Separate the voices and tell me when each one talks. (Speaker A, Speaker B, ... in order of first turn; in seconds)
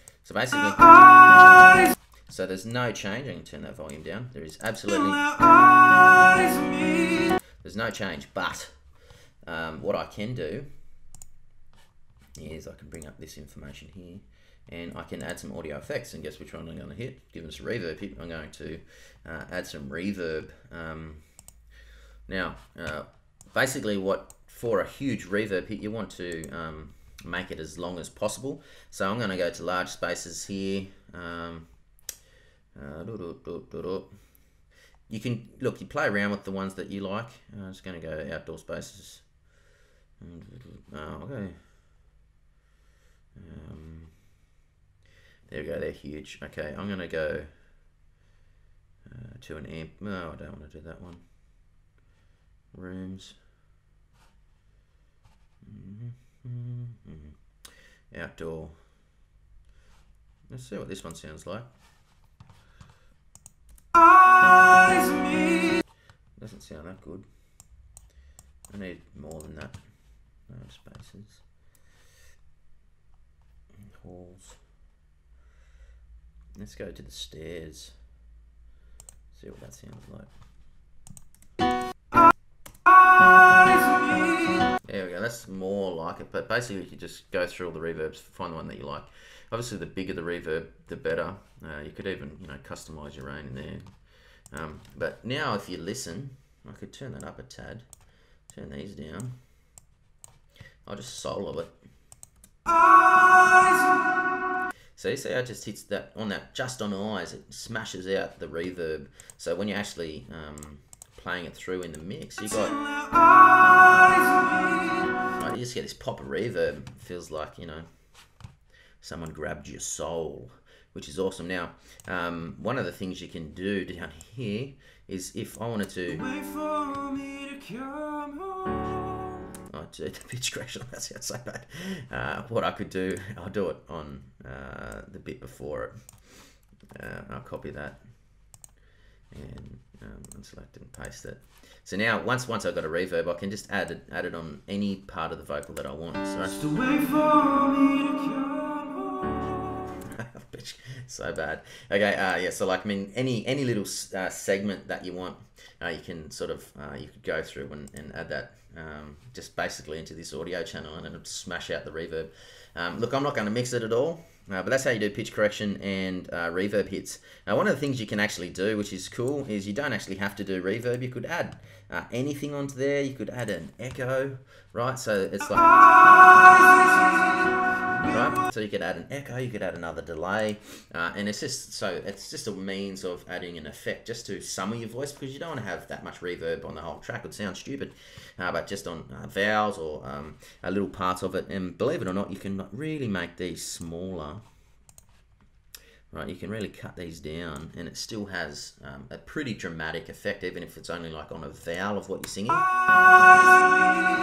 Speaker A: 0.2-5.4, 7.5-8.7, 9.4-10.7, 12.4-21.2, 22.3-31.7, 32.8-34.1, 35.1-39.3, 40.2-41.6, 43.4-44.1, 45.5-47.5, 49.1-51.2, 52.7-53.4, 55.6-57.4, 58.1-58.8, 60.5-61.7, 66.4-67.3, 68.7-69.8, 70.5-71.4, 74.0-74.6, 76.6-77.9, 79.3-80.3, 84.7-93.8, 94.5-97.9, 98.5-99.3, 100.8-101.7, 105.0-112.8, 115.2-117.9, 119.0-126.3, 129.7-135.9, 136.9-138.0, 139.3-146.7, 149.9-176.9, 178.0-194.4, 196.1-202.8
Speaker B: 5.3-7.3, 64.6-65.6, 83.5-84.3, 102.8-103.9, 113.1-115.2, 126.2-129.4, 146.6-149.9